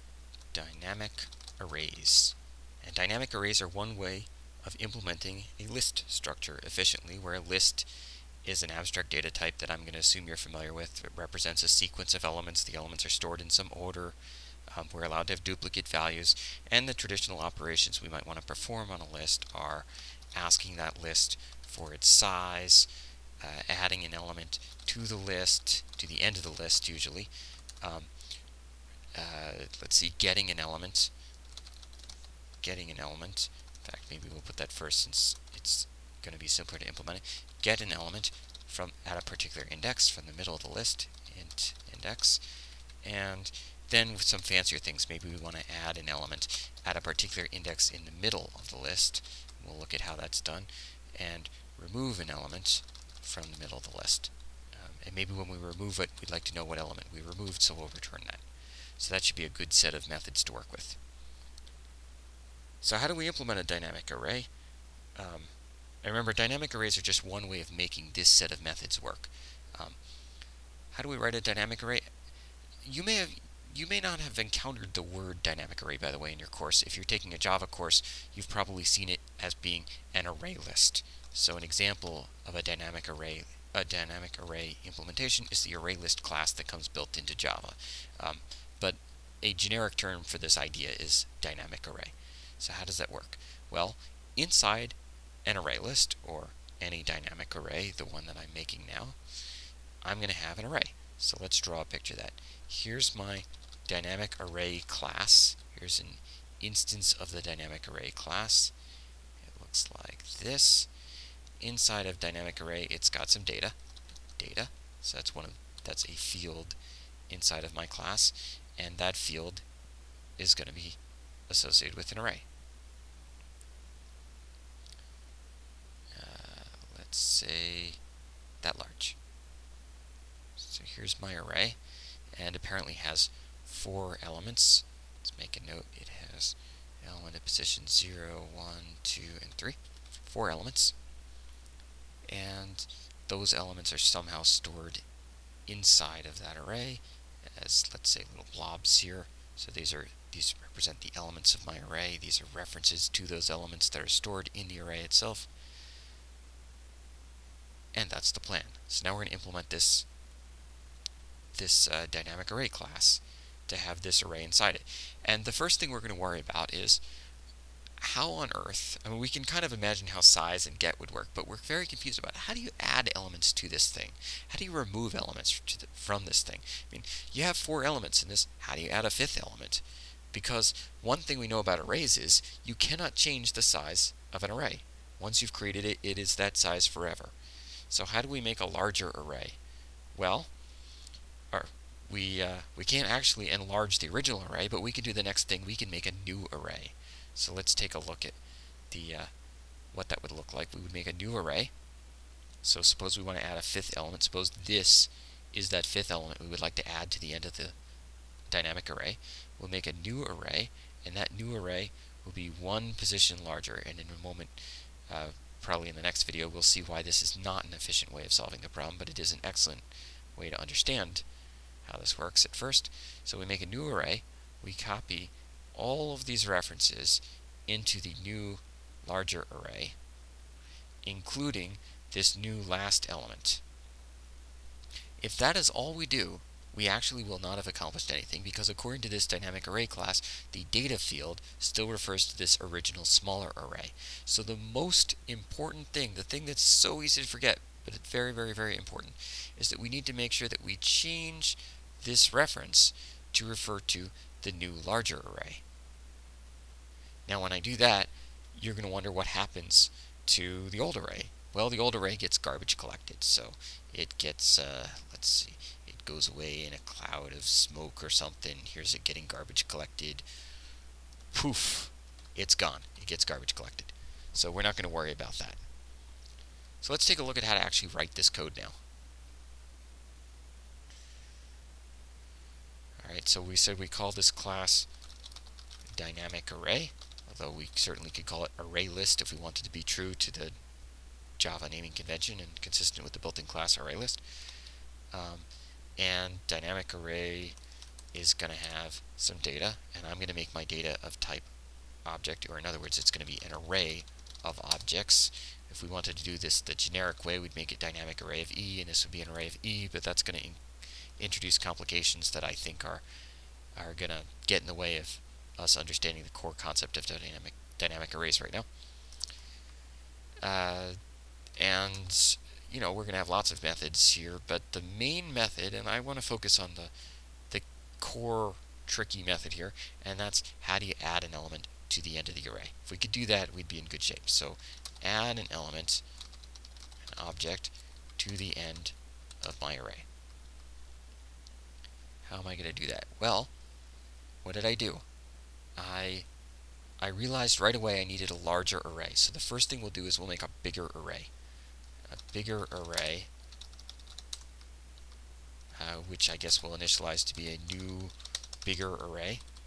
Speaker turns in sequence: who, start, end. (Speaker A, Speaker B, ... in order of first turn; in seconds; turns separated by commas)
Speaker A: 0.5-7.9, Speaker A: 8.4-14.2, Speaker A: 14.7-22.9, Speaker A: 23.4-28.1, Speaker A: 29.1-31.1, Speaker A: 32.6-42.4, Speaker A: 43.0-58.4, Speaker A: 59.0-61.0, Speaker A: 62.8-64.5, Speaker A: 65.2-70.0, Speaker A: 70.9-72.1, Speaker A: 72.8-99.2, Speaker A: 100.0-108.7, Speaker A: 109.4-110.9, Speaker A: 111.6-113.8, Speaker A: 114.4-116.8, Speaker A: 117.3-119.6, Speaker A: 120.4-121.0, Speaker A: 121.5-122.5, Speaker A: 126.1-128.0, Speaker A: 128.6-129.2, Speaker A: 130.6-131.8, Speaker A: 132.3-140.9, Speaker A: 142.3-145.0, Speaker A: 145.7-155.5, Speaker A: 157.9-160.1, Speaker A: 161.5-167.0, Speaker A: 168.0-187.3, Speaker A: 187.9-189.6, Speaker A: 190.1-190.5, Speaker A: 191.5-198.4, Speaker A: 198.9-199.3, Speaker A: 199.9-201.7, Speaker A: 202.6-207.7, Speaker A: 208.5-221.2, Speaker A: 221.8-230.0, Speaker A: 231.0-233.6, Speaker A: 235.2-255.6, Speaker A: 257.3-270.2, Speaker A: 271.3-275.6, Speaker A: 276.8-278.8, Speaker A: 283.0-284.9, Speaker A: 285.9-290.5, Speaker A: 291.4-294.2, Speaker A: 295.1-297.6, Speaker A: 298.1-301.5, Speaker A: 302.0-310.6, Speaker A: 311.2-313.0, Speaker A: 313.8-318.6, Speaker A: 320.4-321.0, Speaker A: 321.6-326.9, Speaker A: 327.5-336.0, Speaker A: 337.1-340.1, Speaker A: 342.2-343.5, Speaker A: 344.4-345.0, Speaker A: 345.8-346.2, Speaker A: 347.0-351.3, Speaker A: 352.1-353.3, Speaker A: 355.8-359.4